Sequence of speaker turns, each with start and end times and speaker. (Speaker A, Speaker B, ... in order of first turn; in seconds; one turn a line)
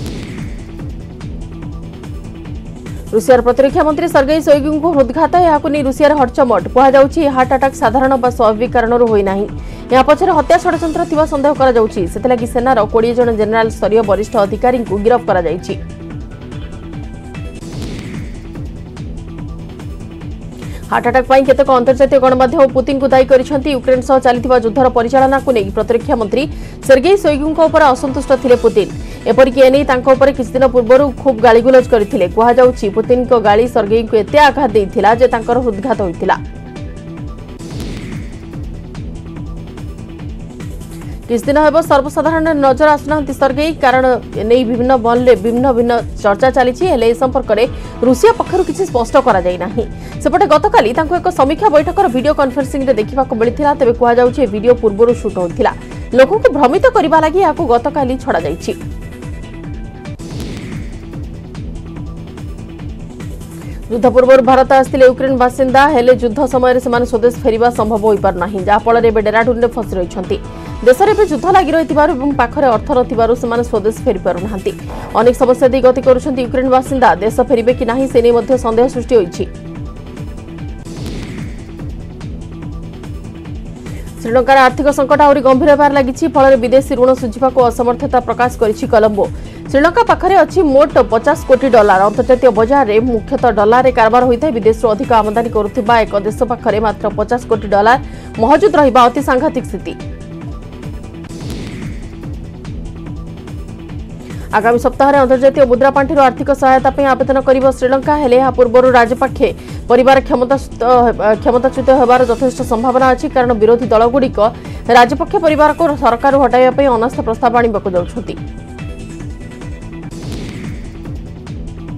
Speaker A: 3.1-15.8
Speaker A: 20.9-36.4
Speaker A: 41.3-58.8
Speaker A: 63.9-79.5
Speaker A: 84.2-100.0
Speaker A: 104.5-118.4